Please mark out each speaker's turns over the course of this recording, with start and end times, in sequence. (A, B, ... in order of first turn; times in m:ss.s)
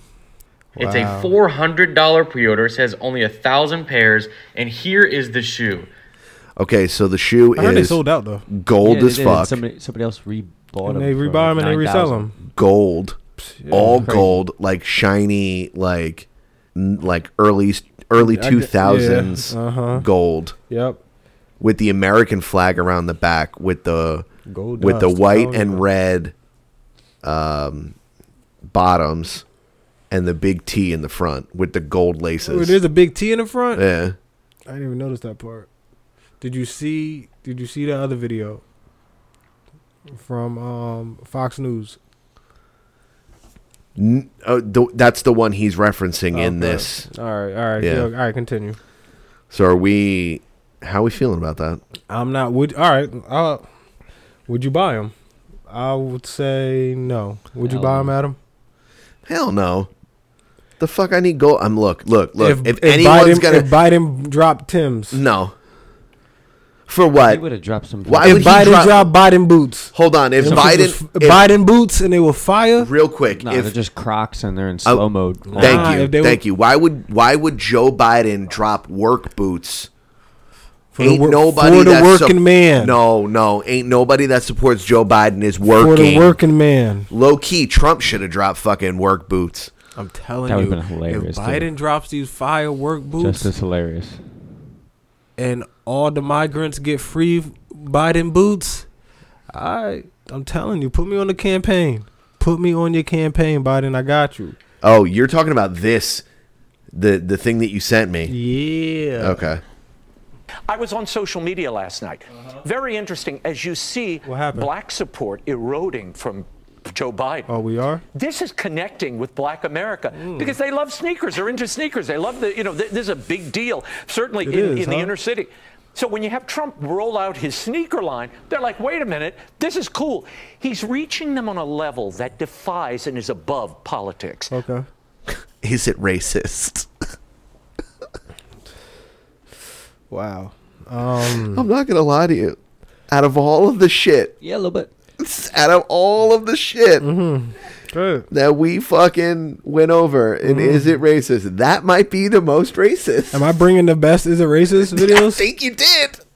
0:00.8-0:01.4 A
0:00.8-0:05.9 B
0:06.6-0:09.6 C
0:07.6-0:08.4 A
0:08.8-0:12.5 D
0:10.8-0:12.3 A
0:12.6-0:13.2 C
0:13.4-0:14.2 A
0:13.7-0:20.6 C
0:13.9-0:14.4 D
0:18.2-0:20.0 A
0:20.7-0:21.0 A
0:21.6-0:24.3 C
0:24.5-0:25.8 A
0:24.8-0:26.3 C
0:27.2-0:27.9 C
0:28.6-0:29.4 C
0:30.1-0:32.8 C
0:32.4-0:33.8 A
0:33.8-0:34.2 C
0:34.7-0:35.7 A
0:36.4-0:38.6 A
0:40.2-0:42.0 A
0:44.0-0:47.1 C
0:46.3-0:48.8 A
0:47.8-0:48.1 C
0:49.5-0:51.8 C
0:52.1-0:53.6 A
0:54.5-0:55.1 A
0:55.7-0:58.4 A
0:57.6-0:58.1 D
0:59.2-0:59.9 C
1:00.8-1:03.7 C
1:02.4-1:05.2 A
1:05.1-1:05.5 C
1:06.9-1:07.4 C
1:07.2-1:08.8 D
1:08.0-1:09.1 C
1:08.2-1:12.9 A
1:09.9-1:11.4 C
1:10.4-1:10.7 D
1:12.8-1:13.7 C
1:13.3-1:16.0 D
1:14.8-1:19.9 C
1:15.5-1:16.4 A
1:20.9-1:23.0 A
1:21.0-1:26.4 C
1:25.7-1:27.1 A
1:27.1-1:29.7 C
1:30.0-1:33.5 A
1:30.5-1:31.7 D
1:33.2-1:34.2 D
1:35.4-1:38.8 A
1:39.5-1:44.6 A
1:44.8-1:46.2 C
1:46.9-1:48.3 C
1:48.3-1:49.4 A
1:49.2-1:49.6 C
1:50.7-1:57.5 E
1:54.2-1:54.7 A
1:57.5-1:58.0 A
1:58.1-2:14.5 E
2:00.1-2:00.6 A
2:04.4-2:05.1 A
2:14.5-2:14.9 A
2:15.5-2:16.9 C
2:20.1-2:21.6 A
2:21.5-2:22.6 C
2:23.1-2:24.3 C
2:24.4-2:24.9 D
2:25.2-2:27.1 C
2:27.0-2:28.3 A
2:28.3-2:33.4 C
2:30.4-2:31.0 A
2:33.3-2:35.4 A
2:34.8-2:36.2 C